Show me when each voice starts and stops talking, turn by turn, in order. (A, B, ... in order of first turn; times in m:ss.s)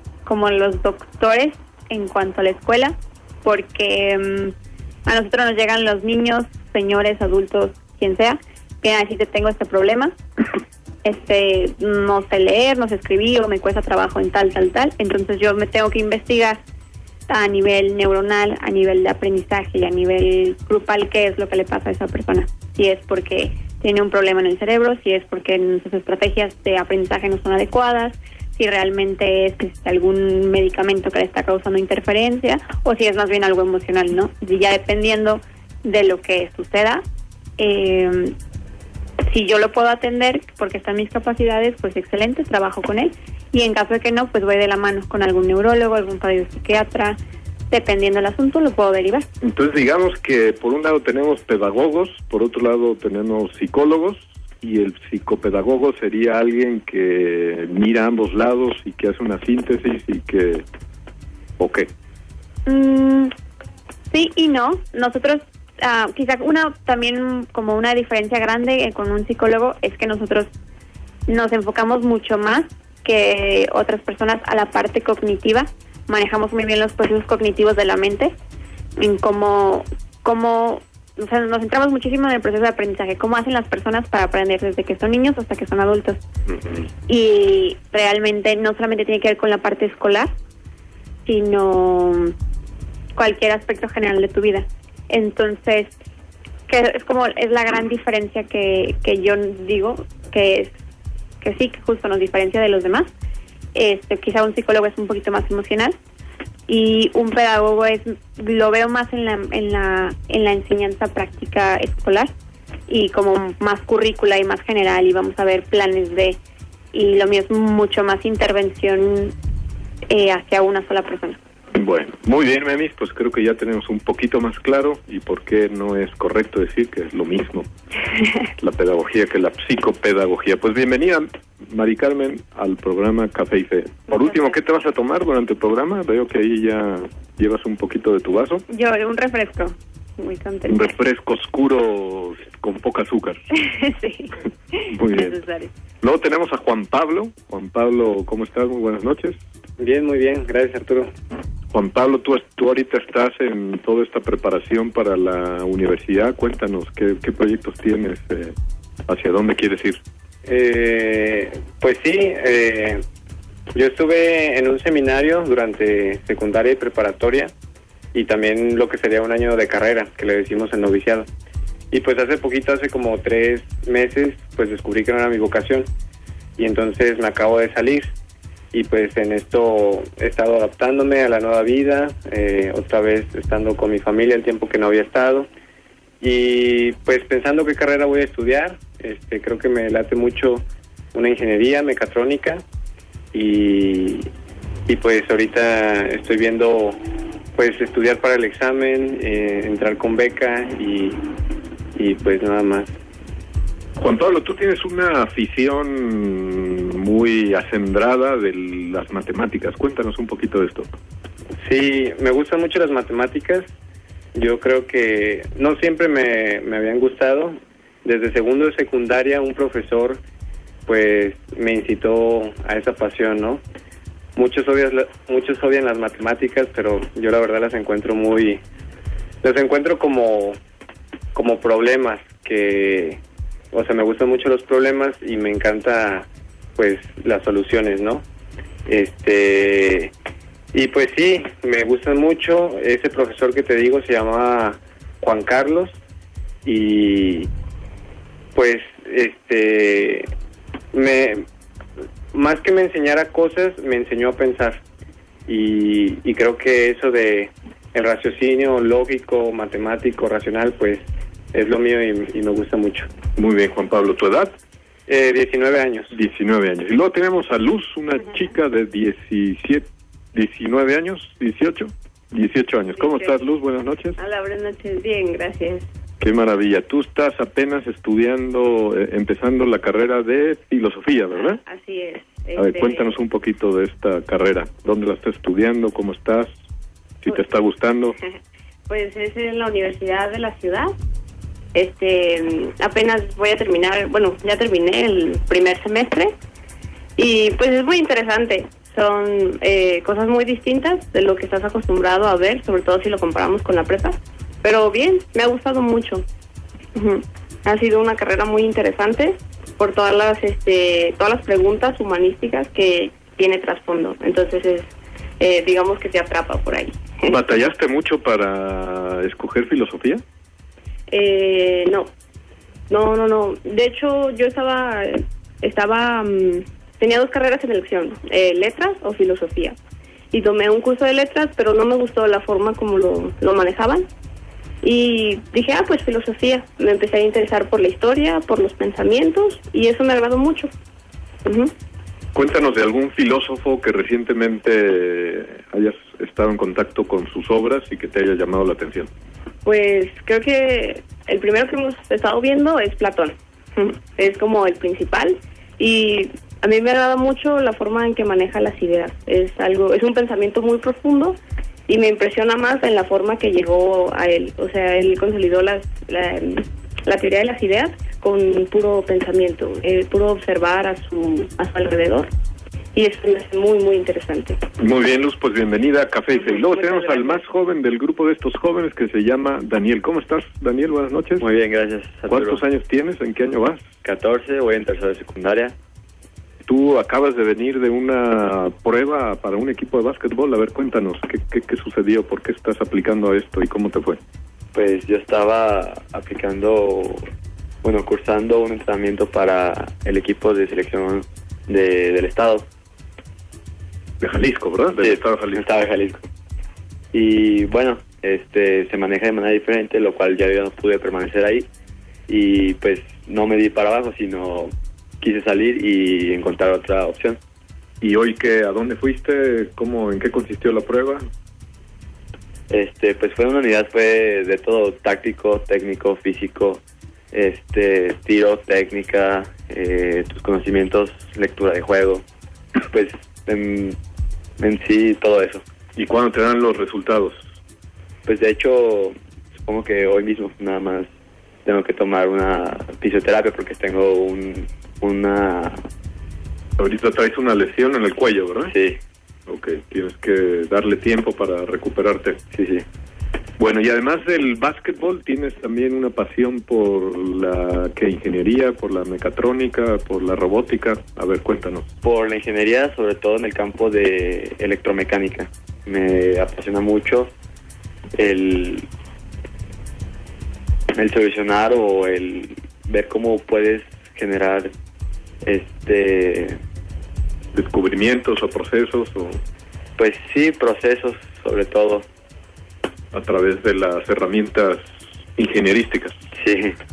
0:00.2-0:04.5 A
0:05.0-0:10.1 A
0:11.0-0:16.6 A
0:17.3-0:37.0 A
0:37.6-0:38.3 A
0:39.3-0:47.2 A
0:47.7-0:49.3 A
0:49.4-1:00.6 B
1:01.6-1:01.9 B
1:02.7-1:03.3 A
1:04.1-1:10.5 A
1:11.3-1:18.3 A
1:19.0-1:26.2 A
1:26.5-1:26.8 B
1:27.1-1:30.3 A
1:31.2-1:32.3 A
1:33.2-1:35.9 A
1:36.7-1:40.7 A
1:41.4-1:43.1 A
1:43.7-1:46.0 A
1:46.7-1:52.3 A
1:52.9-1:56.4 A
1:56.9-1:59.3 A
2:00.1-2:01.4 A
2:01.7-2:07.7 B
2:08.6-2:18.6 B
2:18.7-2:20.9 A
2:20.7-2:23.4 B
2:23.6-2:25.7 A
2:24.9-2:25.4 B
2:26.0-2:29.4 B
2:29.8-2:31.1 C
2:31.7-2:38.5 B
2:39.1-2:40.0 B
2:40.4-2:43.0 C
2:43.7-2:47.5 C
2:48.1-2:51.3 C
2:51.9-2:55.9 C
2:56.6-2:58.1 C
2:58.7-3:05.5 C
3:06.2-3:12.6 C
3:13.3-3:14.3 C
3:14.9-3:17.0 C
3:17.5-3:21.2 C
3:22.0-3:22.9 C
3:24.0-3:30.9 B
3:31.6-3:33.7 C
3:34.3-3:40.2 C
3:40.8-3:43.6 C
3:44.4-3:48.6 C
3:49.4-3:50.6 C
3:51.3-3:53.2 C
3:53.7-3:58.2 C
3:58.9-4:00.1 C
4:00.7-4:05.9 C
4:06.6-4:07.5 C
4:08.5-4:10.3 C
4:10.9-4:11.4 C
4:12.3-4:14.8 C
4:15.5-4:23.1 C
4:23.4-4:24.5 B
4:25.1-4:26.1 C
4:26.1-4:34.2 B
4:33.0-4:33.5 D
4:34.2-4:35.8 D
4:36.2-4:41.6 B
4:41.3-4:43.2 D
4:42.6-4:46.5 B
4:47.2-4:48.2 B
4:48.9-4:50.9 D
4:51.7-4:56.3 D
4:57.2-5:06.2 D
5:06.9-5:17.4 D
5:17.3-5:20.2 B
5:21.1-5:22.1 D
5:22.9-5:29.8 D
5:30.3-5:34.1 D
5:34.8-5:40.7 D
5:41.4-5:41.7 D
5:42.3-5:49.1 B
5:49.6-6:01.4 D
6:01.9-6:12.3 D
6:12.9-6:14.6 D
6:14.8-6:21.4 B
6:16.4-6:17.4 D
6:21.4-6:22.6 E
6:22.3-6:23.8 B
6:24.0-6:25.7 E
6:26.7-6:34.2 B
6:34.7-6:37.2 E
6:37.8-6:42.7 E
6:44.2-6:45.6 B
6:45.0-6:46.3 E
6:47.1-6:51.7 E
6:52.3-6:57.4 E
6:58.0-7:01.2 B
7:02.7-7:12.2 E
7:12.9-7:14.0 E
7:14.6-7:15.6 E
7:16.0-7:17.4 B
7:18.2-7:21.1 E
7:21.6-7:25.8 E
7:26.8-7:28.7 B
7:28.7-7:29.0 E
7:29.5-7:32.4 B
7:32.5-7:32.8 E
7:33.6-7:41.9 B
7:42.0-7:47.3 E
7:48.1-7:48.9 E
7:51.0-7:54.7 E
7:55.4-7:56.6 E
7:57.5-7:59.4 B
8:00.0-8:02.0 E
8:03.1-8:04.8 B
8:05.4-8:06.1 B
8:06.4-8:06.8 E